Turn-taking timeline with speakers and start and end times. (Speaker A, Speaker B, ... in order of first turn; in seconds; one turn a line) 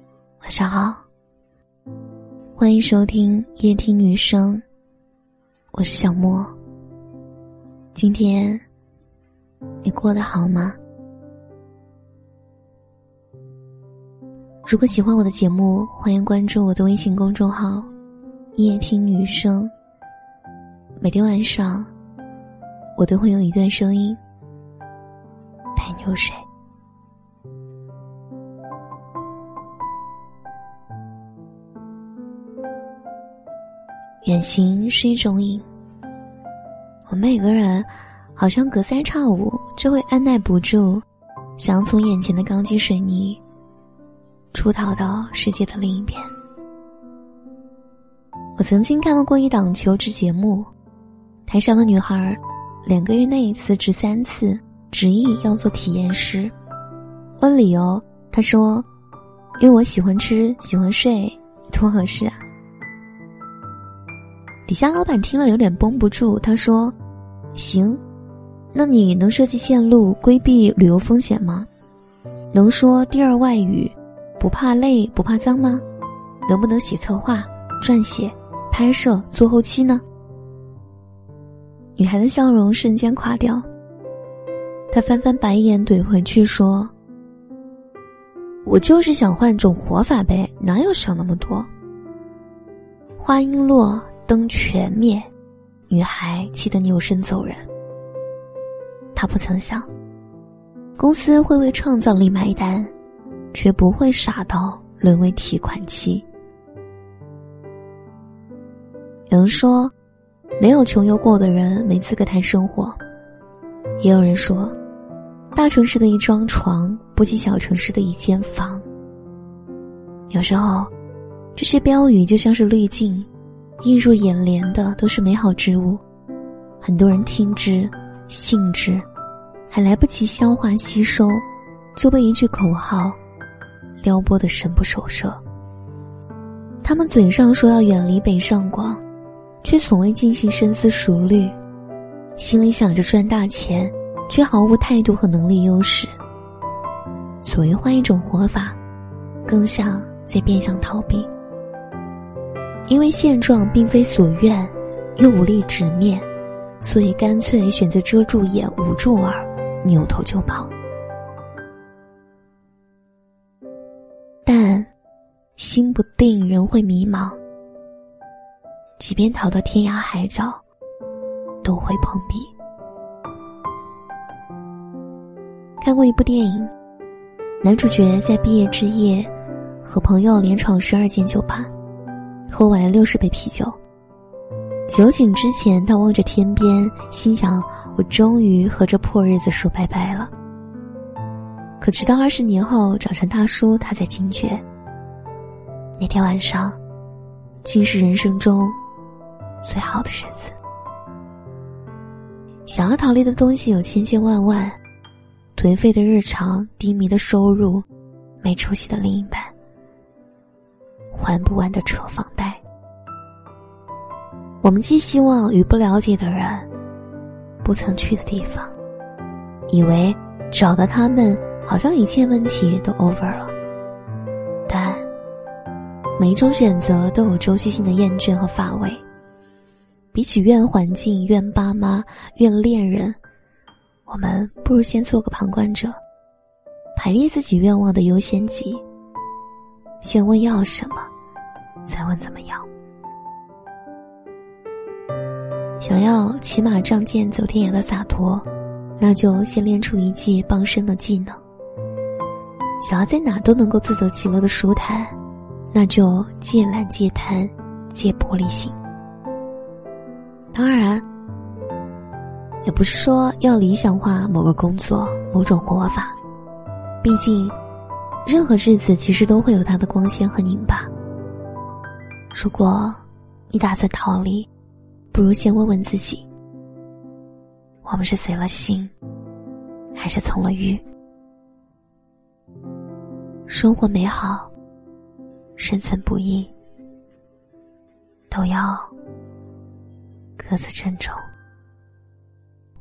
Speaker A: 0.4-1.0
Speaker A: 2.6-4.6
Speaker A: 5.7-6.5
Speaker A: 7.9-8.6
Speaker A: 9.8-10.8
Speaker A: 14.7-17.9
Speaker A: 18.6-19.7
Speaker A: 21.0-21.9
Speaker A: 23.0-24.2
Speaker A: 25.8-26.4
Speaker A: 34.2-35.7
Speaker A: 37.1-41.0
Speaker A: 41.6-43.4
Speaker A: 44.5-46.3
Speaker A: 48.6-50.7
Speaker A: 51.5-56.5
Speaker A: 57.4-58.9
Speaker A: 59.6-62.4
Speaker A: 64.7-67.0
Speaker A: 67.5-68.0
Speaker A: 68.7-71.7
Speaker A: 72.5-75.8
Speaker A: 76.5-80.0
Speaker A: 82.0-83.7
Speaker A: 84.9-86.9
Speaker A: 88.7-91.7
Speaker A: 93.2-95.3
Speaker A: 95.9-97.7
Speaker A: 99.1-99.9
Speaker A: 101.0-102.9
Speaker A: 103.5-106.2
Speaker A: 109.3-109.9
Speaker A: 110.6-113.0
Speaker A: 114.0-114.8
Speaker A: 115.5-118.8
Speaker A: 120.3-120.9
Speaker A: 121.6-123.3
Speaker A: 123.8-126.0
Speaker A: 126.8-129.1
Speaker A: 129.7-131.4
Speaker A: 131.9-133.2
Speaker A: 134.0-135.4
Speaker A: 136.8-139.0
Speaker A: 139.6-141.6
Speaker A: 142.4-146.1
Speaker A: 147.4-148.8
Speaker A: 149.4-151.3
Speaker A: 152.9-156.2
Speaker A: 156.8-160.7
Speaker A: 164.5-164.9
Speaker A: 165.6-167.4
Speaker A: 169.0-170.6
Speaker A: 171.6-172.5
Speaker A: 175.8-176.7
Speaker A: 177.6-179.3
Speaker A: 179.8-181.7
Speaker A: 182.5-183.8
Speaker A: 184.9-190.3
Speaker A: 191.8-194.6
Speaker A: 196.0-196.8
Speaker A: 197.6-198.8
Speaker A: 199.6-200.6
Speaker A: 202.7-204.8
Speaker A: 205.6-207.9
Speaker A: 208.4-209.5
Speaker A: 211.1-212.6
Speaker A: 214.6-216.7
Speaker A: 217.6-218.7
Speaker A: 219.7-223.5
Speaker A: 224.7-225.1
Speaker A: 226.2-229.0
Speaker A: 230.1-233.2
Speaker A: 234.1-236.0
Speaker A: 236.9-238.8
Speaker A: 240.0-241.1
Speaker A: 241.9-242.7
Speaker A: 245.8-248.5
Speaker A: 249.0-251.4
Speaker A: 252.8-255.1
Speaker A: 255.7-258.8
Speaker A: 260.5-261.1
Speaker A: 262.6-266.2
Speaker A: 267.0-267.6
Speaker A: 268.2-270.9
Speaker A: 272.3-274.5
Speaker A: 275.1-276.3
Speaker A: 277.9-278.9
Speaker A: 279.9-280.8
Speaker A: 283.5-284.5
Speaker A: 285.6-286.5
Speaker A: 288.3-288.9
Speaker A: 290.4-291.2